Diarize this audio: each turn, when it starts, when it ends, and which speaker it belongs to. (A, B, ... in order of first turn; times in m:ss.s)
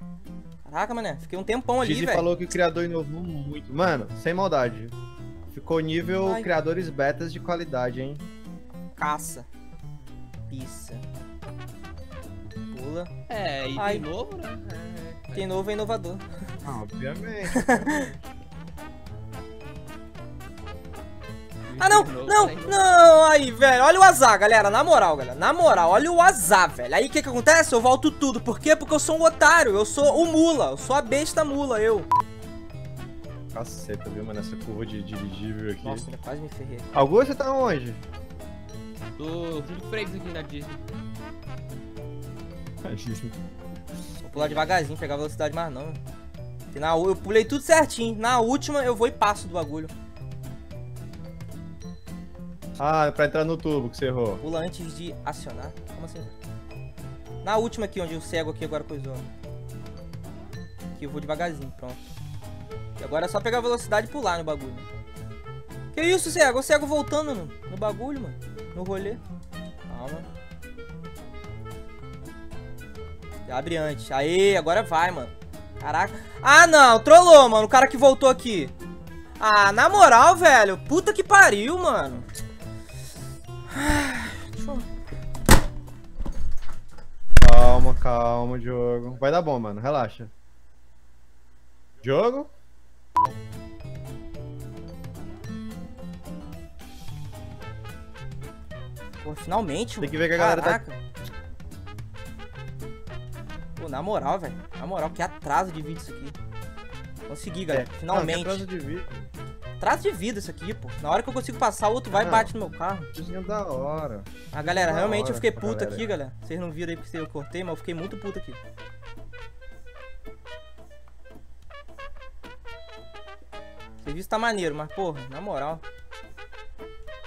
0:00.6-0:02.3 A
0:01.8-0:04.9 B
0:05.5-0:08.2 B
0:06.2-0:06.5 A
0:09.0-0:09.5 A
0:10.5-0:11.0 A
0:12.7-0:13.1 A
0:13.3-0:15.5 C
0:13.8-0:14.1 A
0:15.3-0:16.2 A
0:16.6-0:18.2 B
0:17.5-0:18.0 A
0:21.7-0:22.8 C
0:21.8-0:32.1 A
0:33.5-0:36.1 B
0:35.8-0:37.0 A
0:36.9-0:38.0 B
0:39.2-0:40.8 C
0:42.8-0:43.3 B
0:44.2-0:46.0 A
0:44.3-0:44.8 C
0:46.7-0:49.9 A
0:52.8-0:54.4 B
0:54.4-0:56.4 A
0:57.4-0:59.3 A
1:00.9-1:02.0 A
1:03.0-1:04.9 A
1:05.9-1:09.2 A
1:09.9-1:10.3 A
1:13.4-1:18.7 A
1:19.4-1:22.3 A
1:23.7-1:24.8 A
1:27.4-1:30.3 B
1:32.0-1:32.5 B
1:39.2-1:41.0 A
1:40.0-1:40.8 B
1:43.8-1:46.4 A
1:47.3-1:48.6 A
1:47.7-1:49.3 B
1:49.8-1:53.1 A
1:52.1-1:52.5 B
1:53.1-1:56.1 B
1:54.5-1:58.6 A
2:04.0-2:05.8 A